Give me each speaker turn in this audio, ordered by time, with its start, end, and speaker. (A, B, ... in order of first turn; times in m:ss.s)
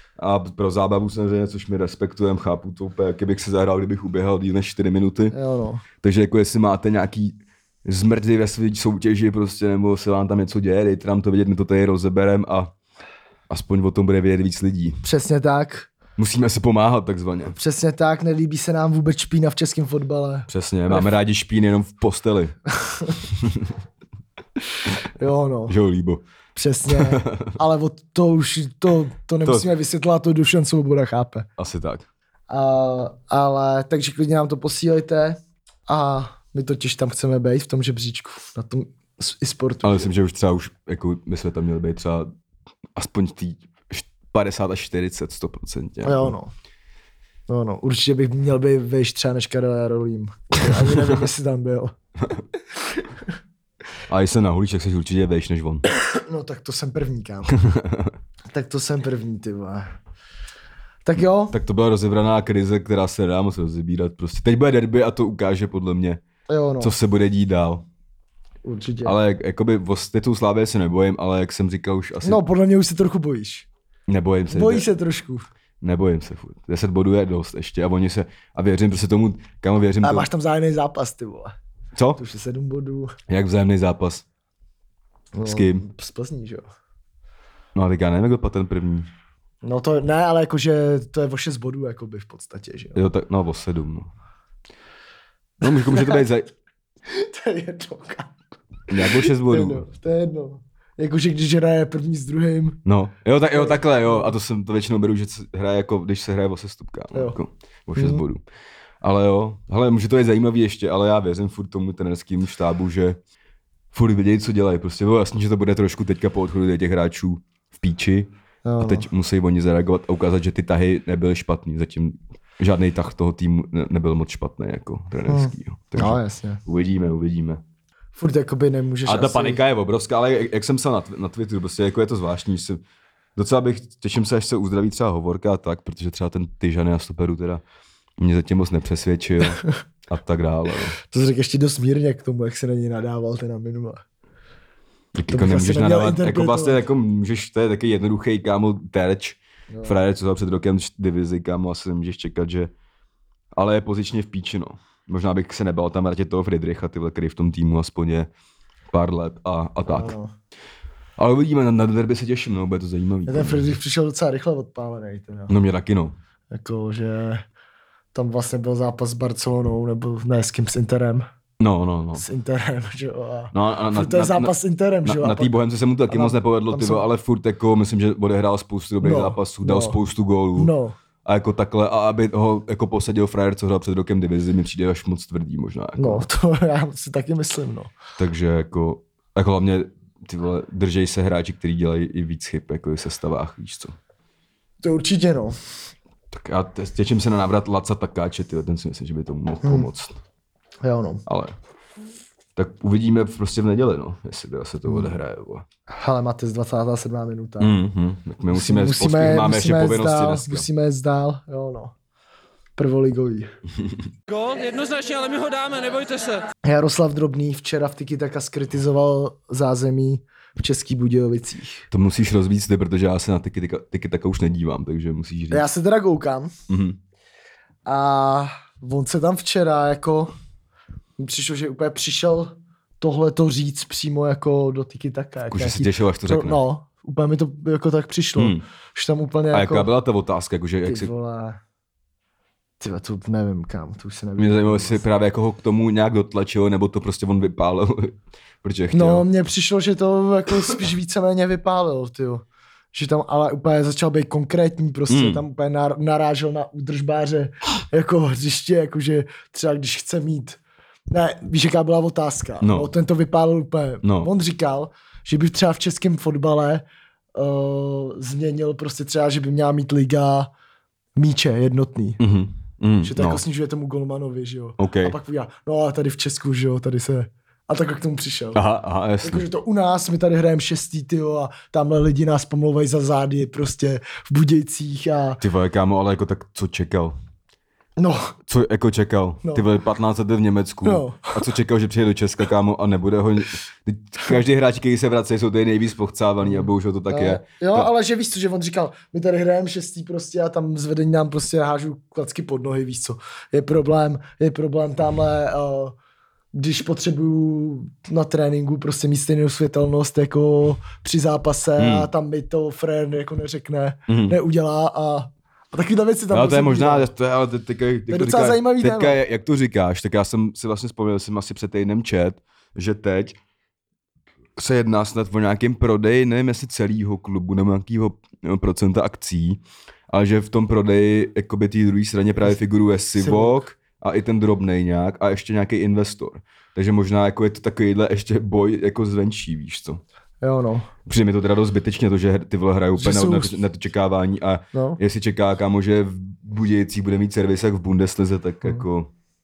0:00.2-0:05.3 A
0:05.3-0:05.8 B
0:06.0-0:12.7 A
0:13.5-0:15.0 A
0:15.0-0:15.9 B
0:16.2-0:17.6 A
0:17.6-0:21.1 B
0:20.5-0:22.5 A
0:22.8-0:23.2 B
0:23.3-0:23.7 A
0:25.2-0:25.8 B
0:25.7-0:26.2 A
0:26.5-0:31.5 B
0:26.9-0:27.6 A
0:31.6-0:32.0 A
0:32.5-0:40.0 B
0:39.8-0:42.3 A
0:43.0-0:46.4 A
0:46.0-0:46.5 B
0:47.5-0:51.9 B
0:50.6-0:51.1 A
0:52.7-0:53.3 B
0:54.1-0:55.9 A
0:55.9-0:57.5 B
0:57.5-0:58.1 A
0:58.5-0:59.9 B
1:01.0-1:01.5 B
1:01.5-1:06.2 A
1:06.5-1:06.9 B
1:06.8-1:07.8 A
1:08.6-1:09.1 B
1:09.0-1:12.4 A
1:12.2-1:13.7 B
1:14.1-1:14.8 A
1:14.5-1:15.4 B
1:15.8-1:20.3 A
1:20.0-1:21.5 B
1:21.9-1:22.2 A
1:22.2-1:23.1 B
1:23.3-1:24.2 A
1:25.3-1:26.6 B
1:25.4-1:25.8 A
1:27.7-1:29.1 A
1:29.6-1:33.0 B
1:32.9-1:34.1 A
1:35.6-1:36.5 A
1:35.6-1:36.2 B
1:37.1-1:38.4 B
1:38.9-1:39.9 A
1:39.0-1:42.8 B
1:42.8-1:48.4 A
1:43.5-1:44.3 B
1:48.0-1:48.2 B
1:49.0-1:53.2 A
1:53.9-2:07.6 A
1:58.6-1:59.1 B
2:05.3-2:06.6 B
2:08.1-2:09.6 B
2:09.0-2:12.8 A
2:13.4-2:17.6 A
2:18.2-2:21.0 A
2:21.0-2:24.0 B
2:25.1-2:32.7 A
2:25.3-2:26.8 B
2:29.7-2:30.0 B
2:33.5-2:38.3 A
2:38.9-2:40.1 A
2:39.9-2:40.3 B
2:41.2-2:43.7 A
2:43.2-2:45.5 B
2:45.5-2:46.1 A
2:46.5-2:47.4 B
2:48.1-2:51.3 B
2:51.6-2:52.2 A
2:52.2-2:55.6 B
2:53.5-3:00.7 A
2:56.1-2:57.0 B
2:59.0-3:00.0 B
3:00.6-3:01.0 B
3:01.2-3:06.3 A
3:06.0-3:07.9 B
3:08.2-3:13.9 A
3:14.8-3:15.6 B
3:16.3-3:20.2 A
3:19.6-3:19.9 B
3:20.8-3:21.2 B
3:21.3-3:21.6 A
3:22.6-3:25.6 A
3:24.9-3:25.1 B
3:25.9-3:27.8 B
3:27.6-3:30.6 A
3:28.5-3:31.9 B
3:32.8-3:33.5 B
3:34.4-3:36.4 C
3:36.6-3:41.8 B
3:41.9-3:45.6 A
3:45.5-3:46.5 B
3:46.7-3:47.0 A
3:47.8-3:50.3 B
3:51.2-3:59.9 B
3:55.5-3:56.6 A
3:58.4-3:58.6 A
3:59.5-4:01.1 A
4:00.8-4:01.6 B
4:02.8-4:05.0 B
4:04.4-4:09.3 A
4:08.9-4:30.5 B
4:15.1-4:15.4 A
4:22.6-4:22.9 A
4:24.0-4:24.3 A
4:31.2-4:32.2 B
4:32.2-4:33.4 A
4:33.0-4:38.6 B
4:34.8-4:35.2 A
4:38.5-4:39.4 A
4:39.2-4:45.4 B
4:45.4-4:47.2 A
4:48.0-4:48.3 B
4:48.5-4:57.9 A
4:50.8-4:51.4 B
4:56.4-5:05.9 B
5:06.5-5:17.1 B
5:11.8-5:12.1 A
5:14.1-5:14.4 A
5:16.3-5:23.4 A
5:18.1-5:19.2 B
5:24.6-5:40.0 A
5:33.1-5:33.6 B
5:40.4-5:40.9 B
5:41.0-5:49.1 A
5:43.0-5:43.6 B
5:44.7-5:45.0 B